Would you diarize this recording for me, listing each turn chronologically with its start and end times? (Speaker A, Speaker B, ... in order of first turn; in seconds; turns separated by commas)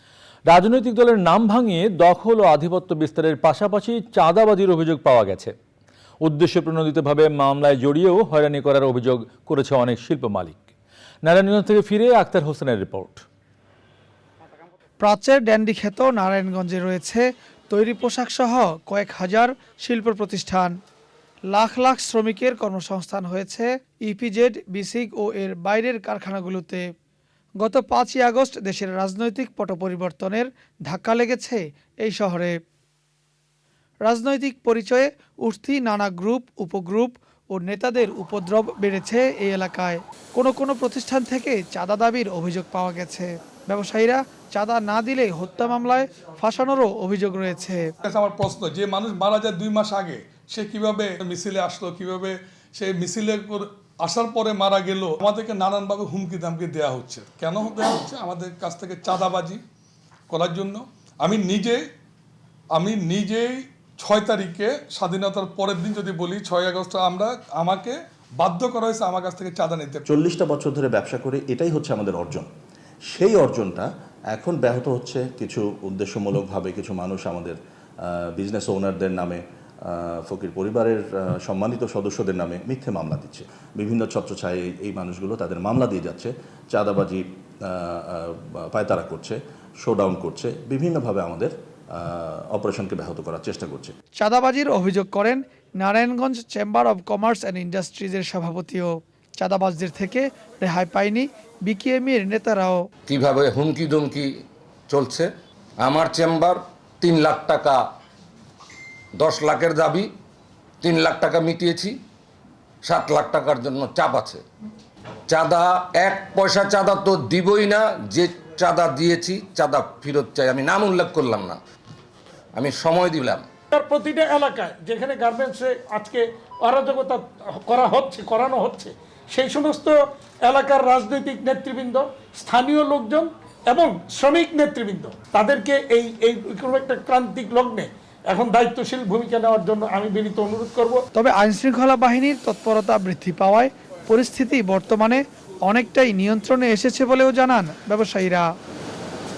Speaker A: 0.5-5.5, Speaker A: 6.2-10.7, Speaker A: 11.2-13.2, Speaker B: 15.0-20.7, Speaker B: 21.5-26.8, Speaker B: 27.6-32.6, Speaker B: 34.0-47.9, Speaker C: 48.0-59.6, Speaker C: 60.3-61.8, Speaker C: 62.7-70.0, Speaker D: 70.1-72.5, Speaker D: 73.1-93.9, Speaker B: 94.2-102.8, Speaker E: 103.1-107.8, Speaker E: 109.2-110.1, Speaker E: 110.8-112.0, Speaker E: 112.8-114.4, Speaker E: 115.3-121.6, Speaker E: 122.5-123.5, Speaker F: 123.7-141.0, Speaker B: 141.1-148.5